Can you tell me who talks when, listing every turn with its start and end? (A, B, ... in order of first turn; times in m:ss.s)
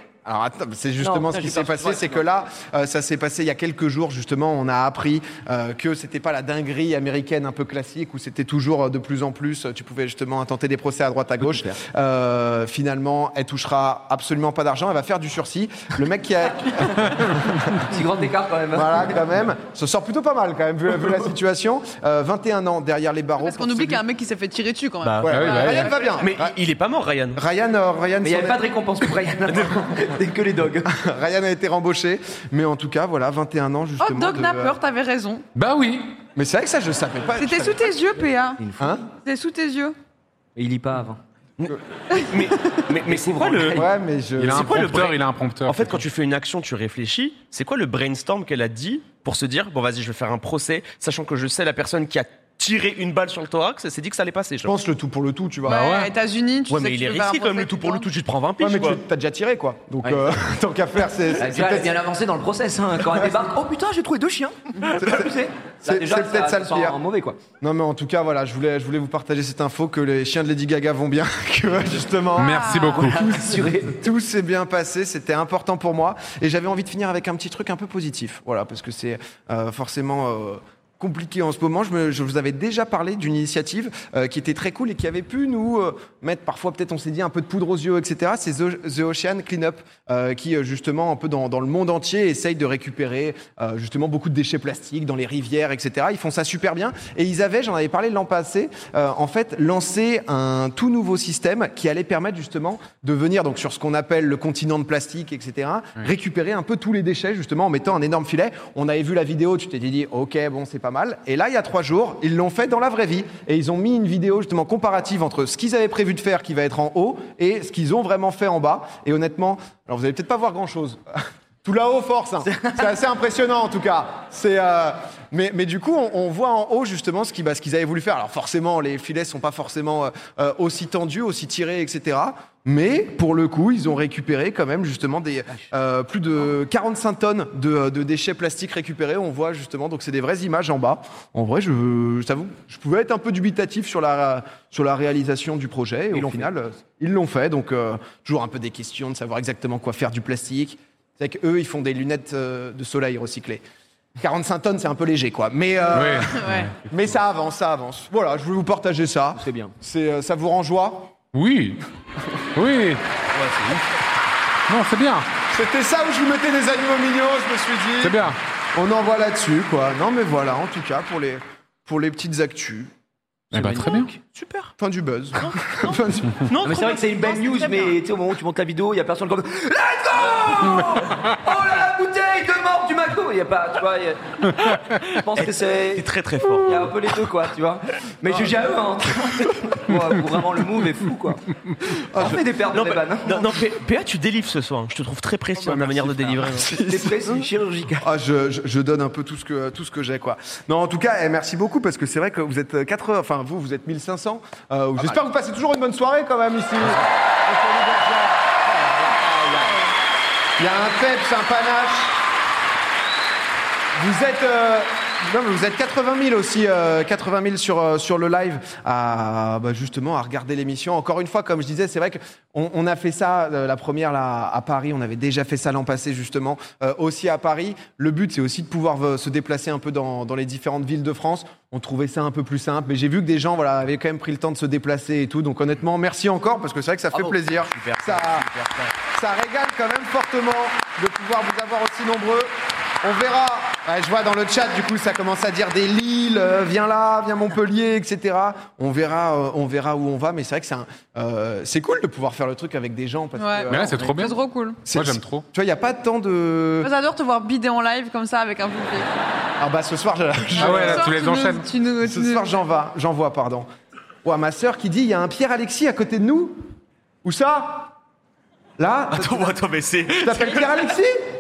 0:00.2-0:17.9 A
0:01.0-0:02.2 B
0:17.9-0:19.2 B
0:18.7-0:24.0 A
0:23.4-0:26.2 C
0:25.0-0:25.5 D
0:25.2-0:26.5 A
0:25.3-0:25.9 E
0:26.2-0:27.4 D
0:27.4-0:29.0 A
0:28.2-0:30.9 B
0:29.5-0:29.8 D
0:30.8-0:34.8 A
0:34.0-0:35.4 C
0:35.6-0:36.2 E
0:36.4-0:37.9 A
0:37.3-0:40.0 C
0:38.6-0:38.9 B
0:38.8-0:39.0 A
0:40.6-0:41.2 B
0:41.6-0:43.8 D
0:42.1-0:42.8 C
0:43.0-0:43.9 B
0:43.7-0:44.7 A
0:44.4-0:46.0 E
0:44.5-0:54.7 D
0:54.6-0:55.9 A
0:55.6-0:58.1 C
0:55.7-0:56.1 E
0:56.7-0:59.0 D
0:58.6-1:02.0 A
1:01.4-1:07.4 B
1:03.0-1:03.4 A
1:04.9-1:07.0 A
1:07.6-2:01.0 A
1:12.4-1:13.0 C
1:12.4-1:13.3 E
1:12.9-1:14.0 B
2:01.6-2:33.6 A
2:02.5-2:02.8 B
2:26.1-2:26.5 B
2:34.2-2:41.1 A
2:35.9-2:37.0 E
2:36.3-2:36.7 C
2:39.4-2:39.7 B
2:41.3-2:41.8 E
2:42.6-2:43.0 E
2:43.3-2:43.8 B
2:44.7-2:45.3 E
2:45.5-2:48.2 A
2:48.0-2:48.4 E
2:48.8-2:52.9 A
2:53.5-2:54.2 B
2:53.5-2:54.1 E
2:54.3-2:54.7 D
2:54.8-2:56.5 A
2:55.4-2:58.0 D
2:56.6-3:06.0 B
3:05.4-3:07.0 D
3:06.7-3:13.5 B
3:12.1-3:12.4 A
3:12.7-3:16.7 D
3:15.6-3:17.5 A
3:16.7-3:18.1 B
3:18.0-3:29.9 A
3:30.6-3:32.2 A
3:34.0-3:58.5 A
3:57.1-3:58.9 D
3:59.0-4:02.5 A
4:03.0-4:14.1 A
4:13.4-4:14.8 C
4:13.7-4:14.4 E
4:14.9-4:16.9 A
4:14.9-4:15.4 E
4:16.8-4:19.1 C
4:19.6-4:21.2 A
4:20.5-4:22.6 C
4:20.6-4:21.7 E
4:22.0-4:23.7 A
4:24.2-4:26.6 A
4:27.2-4:27.9 A
4:28.8-4:29.6 A
4:29.1-4:30.9 D
4:30.2-4:31.2 A